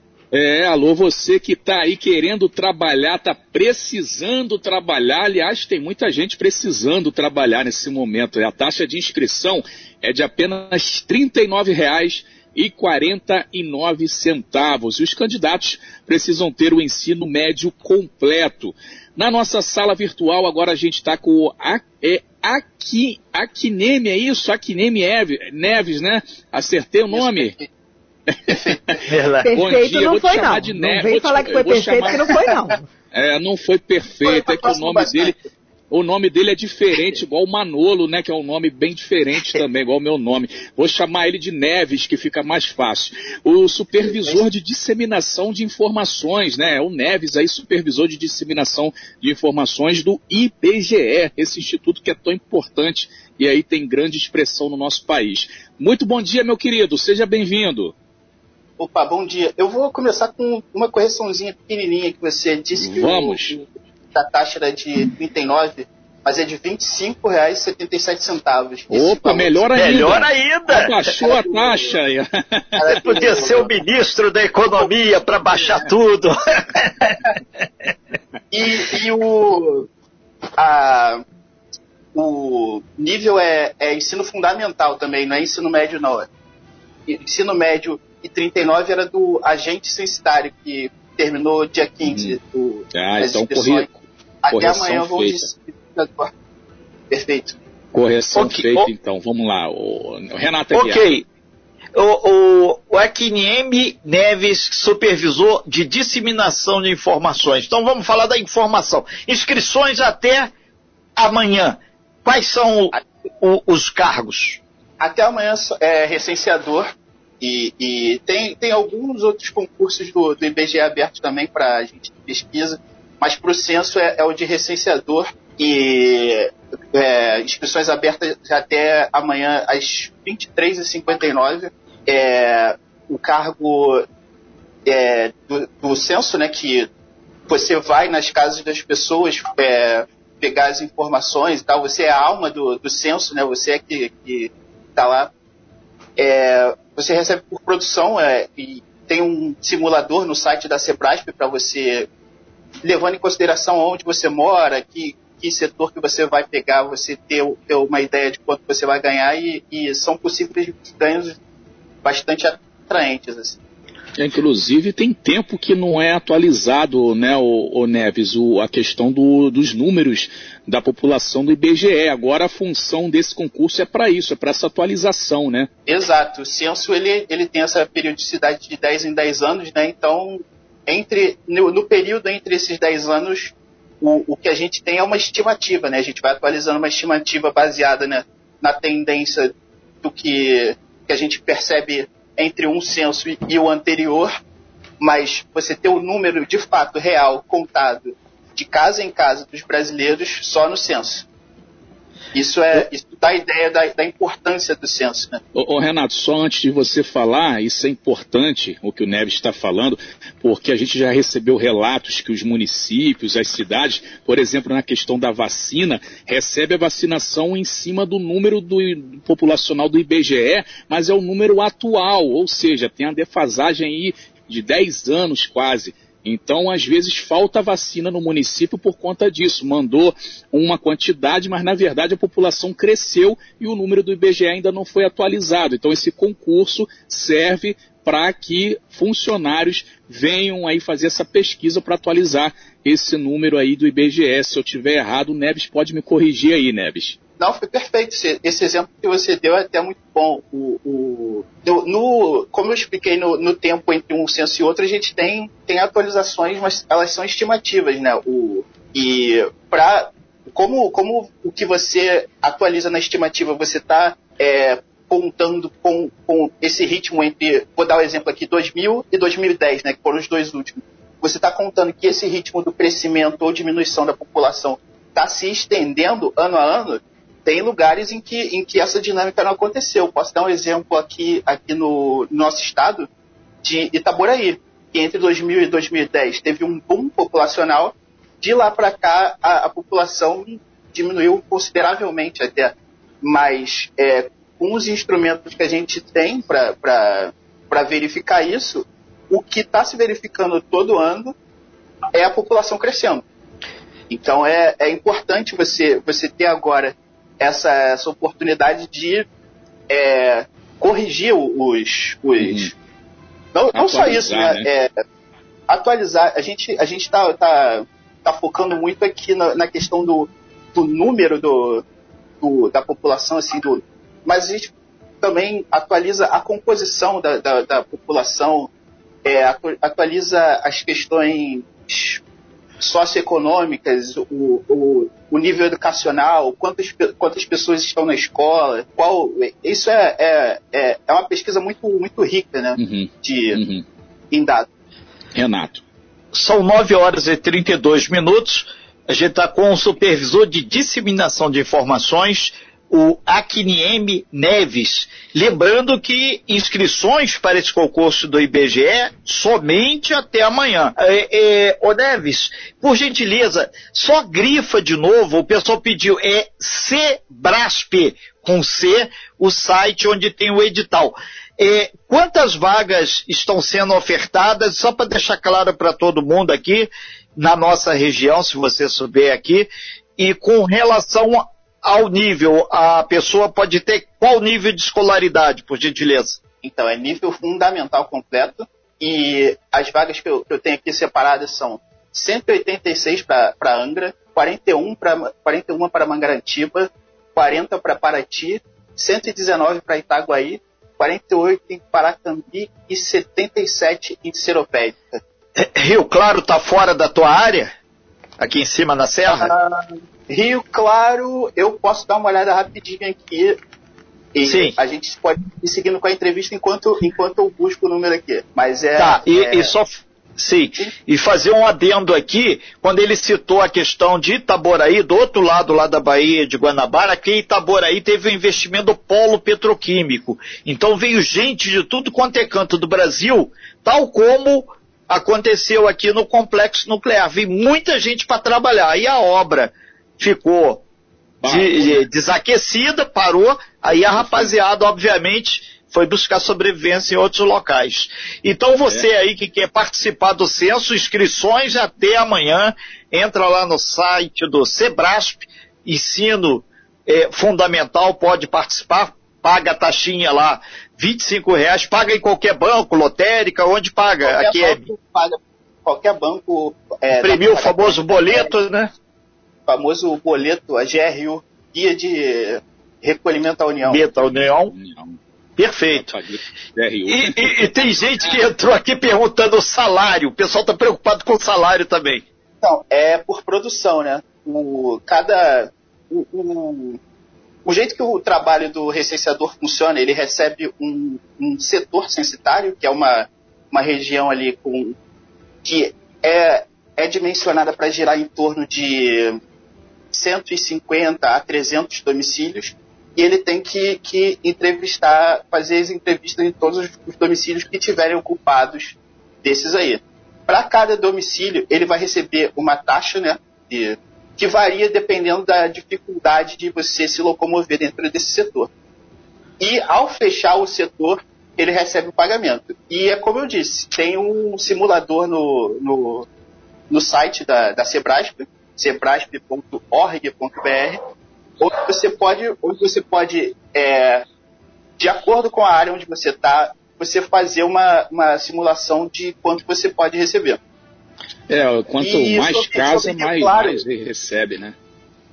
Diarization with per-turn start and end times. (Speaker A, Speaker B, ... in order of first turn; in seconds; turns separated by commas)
Speaker A: 0.3-27.5, Speaker B: 27.1-27.7, Speaker A: 28.5-28.8, Speaker B: 28.5-29.1, Speaker C: 29.1-29.5, Speaker D: 29.4-32.9, Speaker A: 29.5-32.2, Speaker A: 33.1-35.4, Speaker B: 34.2-35.4, Speaker A: 35.9-57.9, Speaker B: 36.9-37.2, Speaker B: 44.0-44.4, Speaker B: 58.8-69.7, Speaker A: 62.7-63.6, Speaker A: 68.9-73.0, Speaker C: 69.7-70.9, Speaker B: 71.1-72.0, Speaker B: 72.8-73.7, Speaker C: 72.9-77.2, Speaker B: 75.6-75.8, Speaker B: 78.5-79.9, Speaker B: 80.5-81.2, Speaker B: 82.1-86.3, Speaker B: 87.1-93.9, Speaker A: 92.0-92.4, Speaker A: 92.9-95.4, Speaker B: 94.4-96.3, Speaker B: 97.1-97.6, Speaker A: 97.9-101.0, Speaker C: 98.3-98.9, Speaker C: 100.7-101.2, Speaker C: 101.9-110.5, Speaker C: 111.2-114.6, Speaker B: 115.0-116.8, Speaker B: 117.4-134.0, Speaker B: 134.8-136.9, Speaker B: 137.5-145.3, Speaker B: 146.2-152.1, Speaker B: 152.8-161.4, Speaker B: 162.0-163.6, Speaker A: 164.2-175.7, Speaker B: 175.9-189.5, Speaker B: 190.0-194.3, Speaker B: 195.0-201.2, Speaker B: 202.3-205.4, Speaker A: 205.5-247.2, Speaker B: 247.4-283.1, Speaker B: 283.6-301.3, Speaker B: 302.1-303.2, Speaker B: 304.1-309.2, Speaker B: 309.9-312.7, Speaker A: 312.4-312.7, Speaker B: 313.5-314.9, Speaker A: 313.7-314.6, Speaker B: 315.7-321.8, Speaker B: 322.4-328.7, Speaker B: 329.2-332.2, Speaker B: 332.8-343.6, Speaker A: 342.8-343.8, Speaker B: 344.3-344.6, Speaker A: 345.3-345.8, Speaker C: 346.3-386.4, Speaker B: 386.6-405.2, Speaker C: 405.6-407.7, Speaker C: 408.4-409.5, Speaker B: 409.4-413.6, Speaker B: 414.3-419.7, Speaker C: 414.4-414.8, Speaker C: 418.9-440.8, Speaker A: 441.4-442.0, Speaker C: 441.4-464.8, Speaker A: 444.1-444.5, Speaker B: 464.2-468.5, Speaker C: 467.1-468.9, Speaker B: 469.7-474.0, Speaker C: 473.8-474.7, Speaker A: 474.2-475.2, Speaker C: 475.6-476.1, Speaker A: 475.9-477.7, Speaker C: 477.1-482.2, Speaker B: 482.6-487.0, Speaker B: 487.6-494.9, Speaker B: 495.6-499.4, Speaker B: 500.1-518.7, Speaker B: 519.6-526.3, Speaker B: 526.9-531.0, Speaker B: 531.6-534.2, Speaker B: 535.0-540.6, Speaker A: 541.5-544.8, Speaker B: 542.0-543.8